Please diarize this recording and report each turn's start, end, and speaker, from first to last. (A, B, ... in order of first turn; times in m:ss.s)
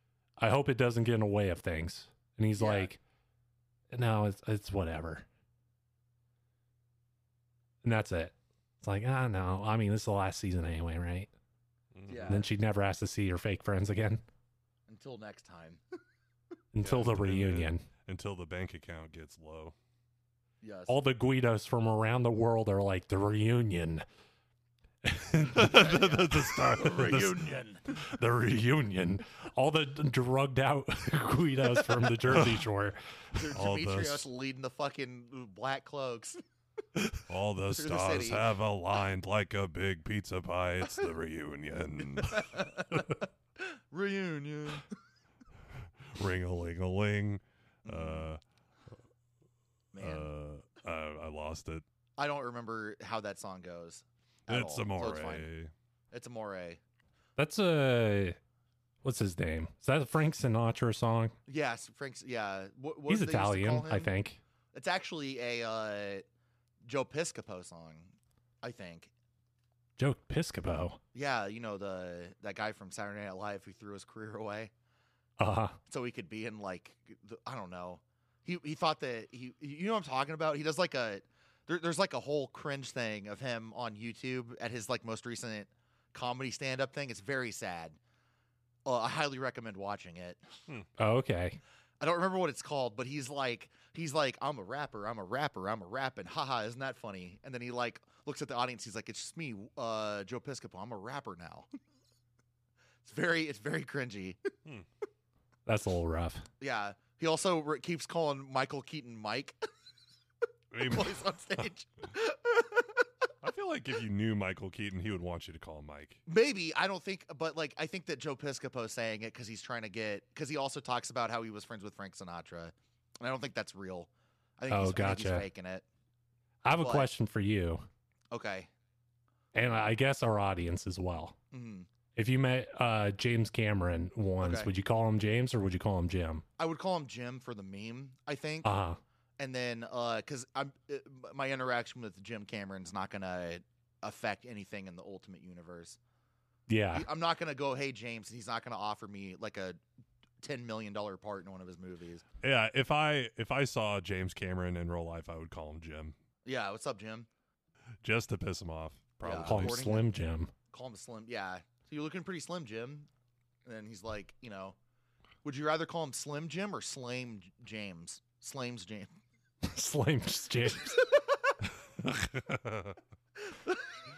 0:00.4-0:03.0 A
0:02.6-0:02.9 B
0:03.9-0:05.2 A
0:07.8-0:11.3 A
0:11.9-0:12.4 C
0:12.1-0:12.5 B
0:12.3-0:14.2 A
0:14.9-0:15.8 B
0:16.7-0:17.8 A
0:16.8-0:19.8 C
0:20.6-0:21.0 B
0:20.9-0:24.0 A
0:25.0-0:25.7 A
0:25.4-0:27.4 C
0:25.6-0:27.8 B
0:27.0-0:27.3 A
0:28.0-0:33.0 A
0:32.3-0:32.6 C
0:33.4-0:36.4 B
0:33.5-0:34.3 C
0:37.3-0:42.7 C
0:37.7-0:38.4 B
0:42.2-0:44.9 B
0:46.0-0:48.4 C
0:47.8-0:48.3 B
0:49.9-0:50.3 B
0:50.0-0:51.8 C
0:52.2-0:55.5 B
0:54.5-0:55.7 C
0:56.1-0:56.8 B
0:57.4-0:58.4 A
0:59.0-1:01.3 A
1:01.5-1:04.1 B
1:03.1-1:04.4 A
1:04.7-1:06.2 B
1:06.8-1:09.1 B
1:10.0-1:11.0 A
1:11.1-1:14.7 B
1:15.4-1:15.8 A
1:15.9-1:28.0 B
1:28.8-1:30.4 B
1:31.0-1:31.6 A
1:32.0-1:41.7 B
1:43.0-1:44.4 B
1:45.7-1:46.4 A
1:46.6-1:49.6 B
1:50.7-1:51.2 C
1:50.8-1:53.0 B
1:53.4-1:56.2 C
1:56.3-2:05.8 B
2:04.7-2:05.4 A
2:06.6-2:07.8 A
2:06.8-2:07.1 B
2:08.3-2:08.7 B
2:09.5-2:11.4 A
2:11.5-2:11.9 B
2:12.2-2:16.4 A
2:14.4-2:14.7 B
2:16.6-2:18.7 B
2:18.6-2:19.0 A
2:19.4-2:26.0 B
2:26.7-2:27.1 A
2:26.9-2:29.8 B
2:30.4-2:32.2 B
2:32.4-2:36.2 C
2:36.4-2:37.3 B
2:38.0-2:39.9 C
2:39.2-2:40.1 B
2:39.4-2:40.5 A
2:40.7-2:43.1 B
2:43.6-2:44.8 B
2:45.4-2:49.1 B
2:49.6-2:51.0 A
2:50.9-2:51.3 B
2:52.0-2:53.0 C
2:53.4-2:54.0 B